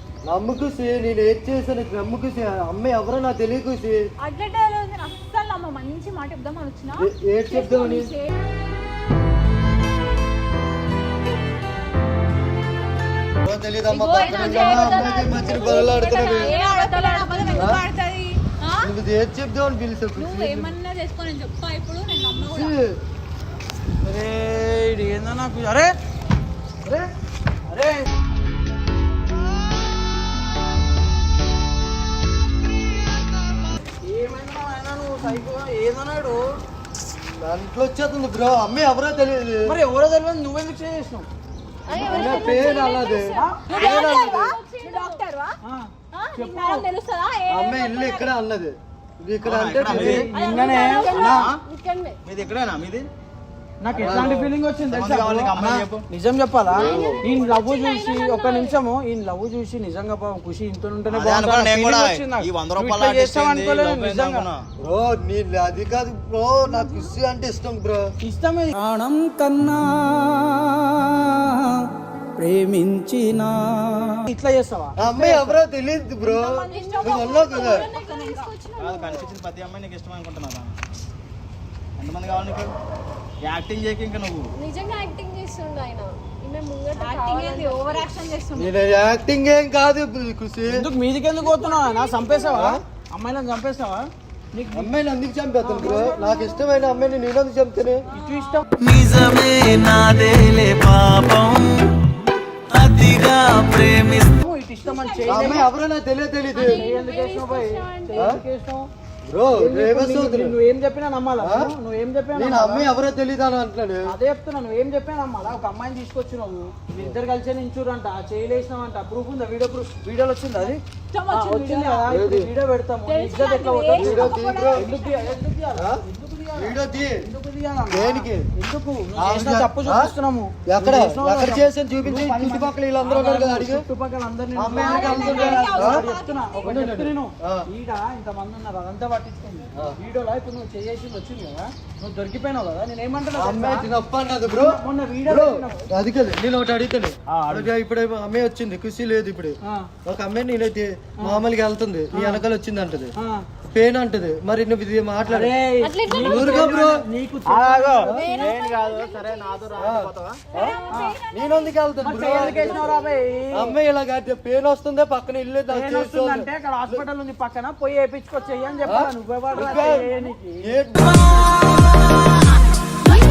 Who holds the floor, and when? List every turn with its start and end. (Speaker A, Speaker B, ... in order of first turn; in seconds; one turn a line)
Speaker A: 0.3-4.0
Speaker B: 4.2-8.3
Speaker A: 7.0-8.1
Speaker A: 13.4-16.6
Speaker C: 14.0-17.8
Speaker B: 14.0-18.9
Speaker A: 17.5-17.8
Speaker A: 18.8-20.7
Speaker B: 20.2-22.7
Speaker A: 22.4-23.0
Speaker D: 24.0-25.9
Speaker D: 27.7-28.1
Speaker D: 34.0-36.4
Speaker A: 37.4-39.8
Speaker D: 39.6-41.3
Speaker C: 41.9-45.2
Speaker A: 41.9-44.6
Speaker B: 42.1-45.5
Speaker D: 43.3-43.7
Speaker D: 45.6-46.9
Speaker B: 46.1-48.3
Speaker A: 47.5-50.3
Speaker E: 49.4-50.3
Speaker D: 49.9-51.5
Speaker B: 50.4-51.4
Speaker C: 50.4-52.2
Speaker E: 51.1-51.6
Speaker E: 52.2-53.0
Speaker D: 53.8-55.5
Speaker E: 53.9-56.0
Speaker A: 54.0-54.5
Speaker A: 55.6-55.8
Speaker D: 56.1-64.5
Speaker A: 56.7-57.2
Speaker C: 56.8-57.4
Speaker B: 57.1-58.8
Speaker E: 61.1-64.6
Speaker A: 64.8-68.1
Speaker D: 68.2-71.8
Speaker D: 72.4-75.6
Speaker A: 75.0-77.9
Speaker B: 76.2-78.5
Speaker C: 76.7-79.3
Speaker E: 78.8-80.8
Speaker E: 82.0-82.7
Speaker E: 83.4-84.5
Speaker C: 84.6-88.1
Speaker B: 87.0-88.7
Speaker A: 88.5-90.8
Speaker D: 90.7-94.9
Speaker B: 91.4-92.3
Speaker C: 91.8-92.6
Speaker A: 92.5-92.8
Speaker A: 94.7-98.0
Speaker D: 95.6-96.7
Speaker B: 98.1-98.6
Speaker D: 98.1-98.7
Speaker F: 98.8-101.9
Speaker F: 102.7-104.3
Speaker D: 104.3-105.6
Speaker B: 104.8-105.6
Speaker A: 105.3-106.8
Speaker C: 106.6-108.3
Speaker D: 106.6-108.9
Speaker A: 109.3-110.6
Speaker D: 109.5-112.9
Speaker A: 111.4-111.7
Speaker A: 112.3-114.1
Speaker D: 114.1-120.8
Speaker B: 120.6-122.1
Speaker D: 121.3-143.9
Speaker A: 122.1-122.5
Speaker B: 123.1-125.3
Speaker A: 124.0-124.8
Speaker A: 126.6-127.2
Speaker A: 127.9-128.4
Speaker A: 129.2-130.1
Speaker A: 130.7-133.8
Speaker A: 134.5-136.0
Speaker B: 134.8-136.7
Speaker A: 136.6-137.6
Speaker A: 143.3-153.1
Speaker D: 144.5-145.8
Speaker E: 147.3-147.7
Speaker D: 149.7-149.9
Speaker D: 152.1-152.4
Speaker D: 153.2-153.4
Speaker A: 153.7-155.6
Speaker D: 155.3-158.1
Speaker C: 155.8-156.8
Speaker A: 156.2-157.0
Speaker E: 157.4-160.4
Speaker A: 158.1-158.5
Speaker C: 158.1-159.7
Speaker A: 159.8-163.0
Speaker B: 160.5-163.1
Speaker D: 162.0-163.7
Speaker A: 163.5-167.0
Speaker D: 165.7-170.7
Speaker A: 168.8-170.1
Speaker B: 169.5-170.3
Speaker A: 170.7-171.5